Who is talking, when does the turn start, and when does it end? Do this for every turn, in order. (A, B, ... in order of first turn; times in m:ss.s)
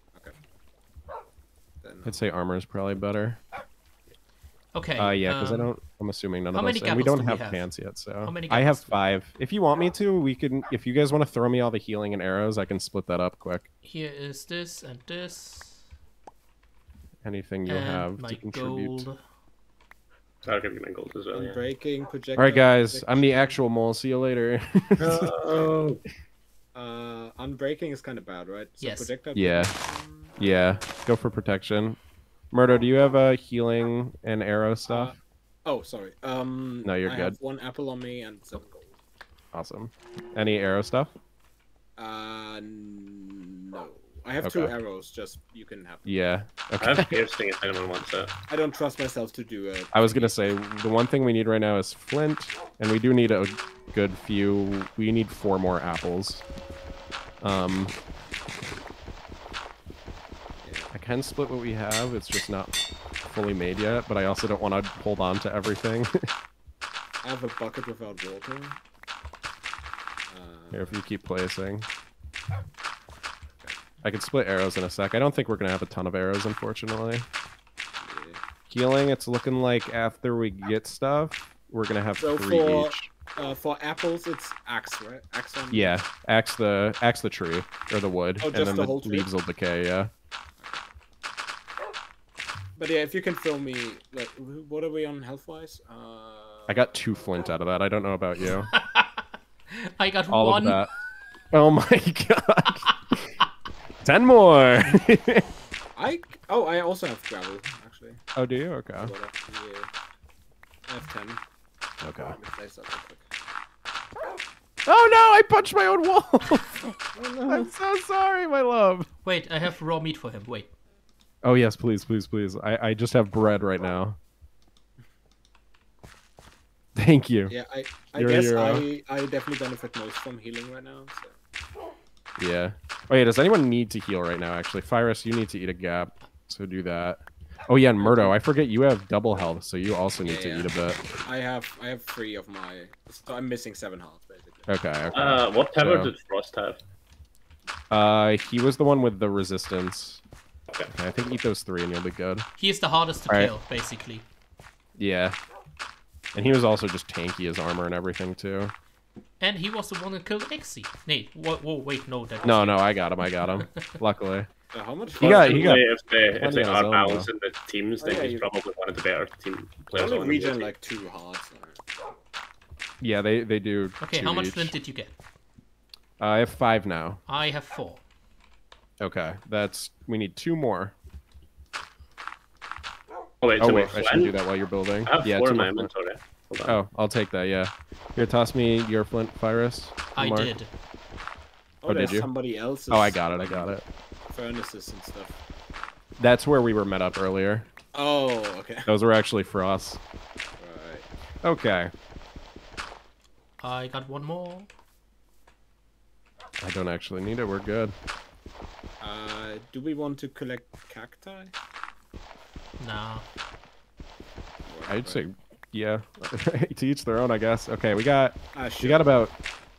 0:01.8-0:02.2 A
0:02.0-0:03.4 B
0:04.7-0:05.7 C
0:05.0-0:13.7 B
0:06.5-0:07.7 C
0:08.2-0:09.0 C
0:13.8-0:15.8 C
0:17.2-0:19.1 B
0:17.6-0:19.2 C
0:20.4-0:21.6 D
0:21.3-0:23.4 A
0:22.4-0:25.3 B
0:25.0-0:26.0 D
0:26.7-0:30.4 A
0:28.8-0:29.1 C
0:29.3-0:29.7 B
0:30.4-0:32.0 B
0:32.5-0:35.2 B
0:34.9-0:38.9 A
0:36.8-0:37.4 B
0:39.5-0:41.1 B
0:42.0-0:46.2 A
0:44.4-0:44.7 B
0:46.0-0:47.2 B
0:46.8-0:48.3 D
0:48.5-0:50.3 A
0:49.9-0:56.4 B
0:57.4-0:57.9 B
1:00.6-1:00.9 A
1:00.9-1:02.7 B
1:03.2-1:06.1 B
1:07.2-1:08.8 A
1:10.3-1:11.0 A
1:10.7-1:11.9 B
1:14.0-1:17.2 B
1:18.0-1:18.4 A
1:18.7-1:23.1 B
1:22.2-1:26.0 A
1:25.7-1:30.1 B
1:28.4-1:29.3 A
1:30.6-1:30.9 A
1:32.8-1:36.8 A
1:36.7-1:38.7 B
1:38.7-1:40.8 C
1:40.3-1:40.9 B
1:41.5-1:43.3 B
1:44.0-1:45.5 B
1:46.0-1:48.2 A
1:48.4-1:49.1 B
1:49.0-1:49.9 A
1:50.9-1:51.4 A
1:52.0-1:52.4 B
1:52.3-1:53.2 A
1:54.8-1:57.0 B
1:57.1-1:57.7 A
1:57.5-1:59.1 B
1:59.2-2:00.7 C
2:01.4-2:04.2 B
2:07.0-2:07.5 B
2:07.5-2:11.4 A
2:08.1-2:08.8 B
2:12.4-2:21.0 B
2:18.0-2:18.4 A
2:20.2-2:24.7 A
2:24.7-2:26.1 B
2:25.1-2:26.8 D
2:27.9-2:30.2 B
2:30.9-2:32.5 B
2:32.6-2:34.2 C
2:33.3-2:33.5 B
2:35.0-2:35.4 B
2:36.3-2:38.7 B
2:39.4-2:42.9 C
2:42.4-2:44.5 B
2:44.7-2:45.8 A
2:45.1-2:50.7 D
2:45.2-2:47.3 B
2:48.0-2:48.5 A
2:49.9-2:51.8 A
2:53.0-2:54.8 B
2:54.0-2:55.1 C
2:56.2-2:57.2 B
2:57.3-2:58.0 C
2:59.0-3:00.9 B
3:03.4-3:04.4 D
3:03.6-3:05.9 B
3:05.0-3:06.8 D
3:06.6-3:10.5 B
3:10.1-3:10.7 C
3:11.8-3:13.8 A
3:11.8-3:12.3 B
3:12.9-3:13.8 B
3:14.3-3:15.4 A
3:16.2-3:17.7 B
3:17.9-3:18.9 A
3:18.8-3:20.0 B
3:20.6-3:21.0 A
3:21.4-3:21.9 B
3:23.6-3:24.7 C
3:26.6-3:27.9 B
3:29.0-3:31.5 A
3:32.8-3:33.2 C
3:34.6-3:35.2 A
3:34.9-3:39.3 B
3:38.5-3:39.2 A